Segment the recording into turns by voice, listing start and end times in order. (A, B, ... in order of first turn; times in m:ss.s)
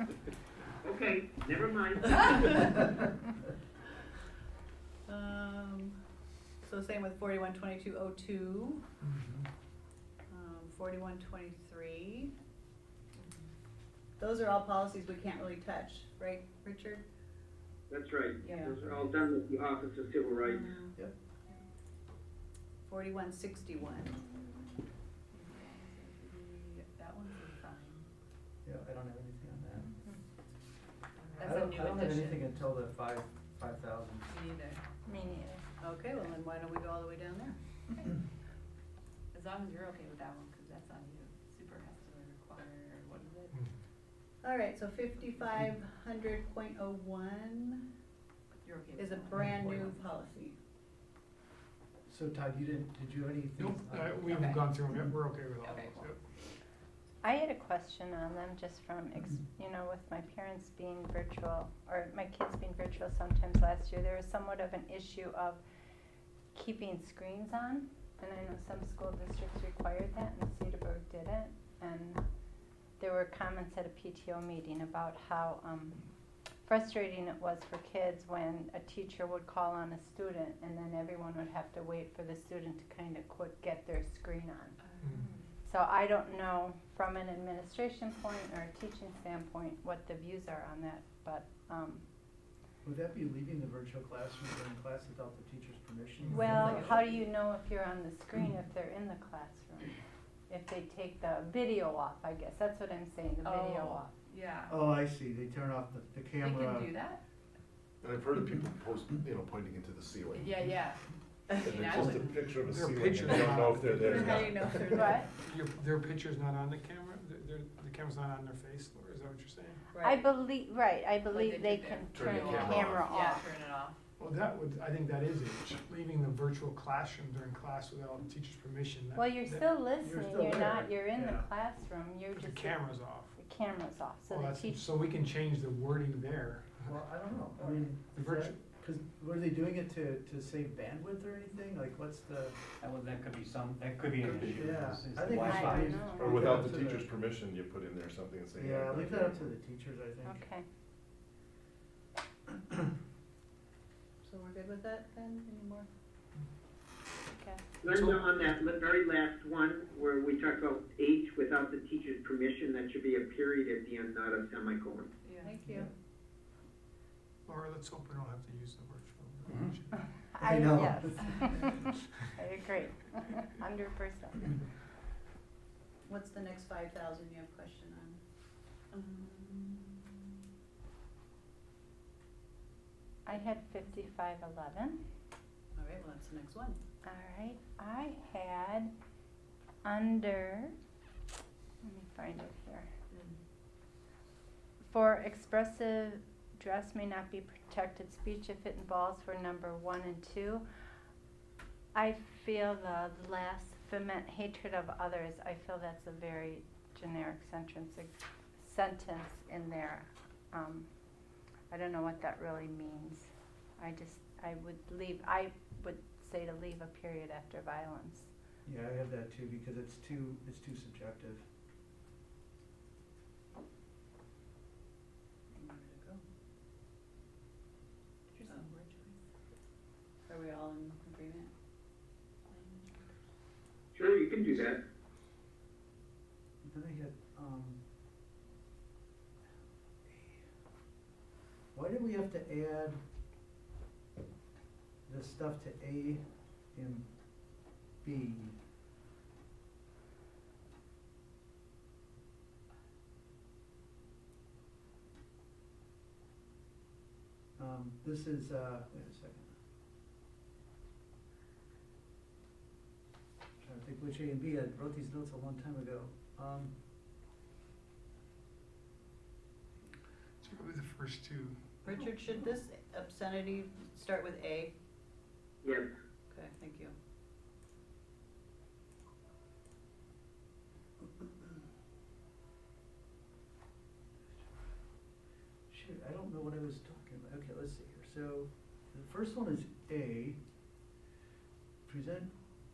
0:00.8-0:02.7 A
0:05.1-0:05.9 B
0:06.6-0:08.8 B
0:09.0-0:09.4 C
0:10.3-0:12.3 B
0:14.2-0:17.0 B
0:17.9-0:20.7 A
0:18.4-0:18.8 D
0:20.5-0:20.8 B
0:22.8-0:24.2 B
0:25.3-0:28.0 D
0:28.6-0:30.0 E
0:31.2-0:32.4 D
0:31.4-0:34.3 E
0:34.3-0:34.8 D
0:35.0-0:35.6 F
0:35.8-0:37.6 B
0:39.3-0:43.5 D
0:44.4-0:47.8 B
0:48.6-0:50.0 D
0:49.0-0:50.5 B
0:52.1-0:54.4 E
0:53.6-0:56.2 C
0:54.3-0:54.6 D
0:55.6-0:56.1 D
0:57.2-1:05.6 F
1:06.5-1:12.2 F
1:13.0-1:16.0 F
1:16.6-1:24.8 F
1:24.8-1:25.4 D
1:25.6-1:32.0 F
1:32.8-1:37.0 E
1:36.2-1:36.7 C
1:36.3-1:40.0 F
1:36.5-1:37.2 D
1:40.5-1:44.1 F
1:43.4-1:44.8 D
1:44.7-1:46.9 E
1:46.4-1:47.2 D
1:48.0-1:50.7 G
1:50.3-1:52.5 D
1:51.6-1:55.1 G
1:52.6-1:54.3 C
1:54.0-1:55.2 B
1:54.9-1:55.3 F
1:55.3-1:59.8 C
1:59.9-2:00.2 B
2:00.0-2:03.4 F
2:01.3-2:04.0 D
2:02.1-2:03.0 G
2:02.3-2:02.8 C
2:04.2-2:09.7 C
2:09.2-2:12.8 F
2:10.0-2:11.5 E
2:12.4-2:13.3 C
2:13.4-2:14.8 F
2:14.3-2:16.9 C
2:16.8-2:22.6 E
2:18.1-2:18.6 C
2:22.8-2:26.3 H
2:24.5-2:27.1 E
2:25.4-2:26.4 F
2:26.2-2:29.5 G
2:28.6-2:30.4 E
2:30.2-2:30.6 F
2:34.2-2:35.9 B
2:37.3-2:37.6 F
2:37.8-2:45.1 A
2:45.2-2:45.5 D
2:45.4-2:45.9 B
2:47.4-2:50.0 C
2:50.3-2:54.6 F
2:50.4-2:51.4 E
2:56.0-2:58.2 B
2:58.9-3:00.1 B
3:03.2-3:05.0 F
3:05.8-3:06.8 B
3:07.0-3:08.9 F
3:09.8-3:10.7 F
3:11.8-3:12.9 F
3:14.8-3:20.6 F
3:21.9-3:30.9 F
3:31.7-3:38.3 F
3:38.6-3:41.4 E
3:45.5-3:46.2 B
3:48.3-3:49.2 D
3:50.3-3:51.5 B
3:52.5-3:53.0 D
3:53.9-3:54.8 A
3:56.6-3:57.8 E
4:00.1-4:00.4 E
4:01.7-4:03.0 E
4:05.1-4:06.2 E
4:06.7-4:07.1 E
4:08.0-4:08.5 E
4:17.6-4:19.5 E
4:23.6-4:26.7 E
4:30.4-4:31.6 C
4:31.8-4:34.7 B
4:35.6-4:35.9 A
4:36.3-4:36.9 B
4:45.7-4:50.4 E
4:51.8-4:52.3 E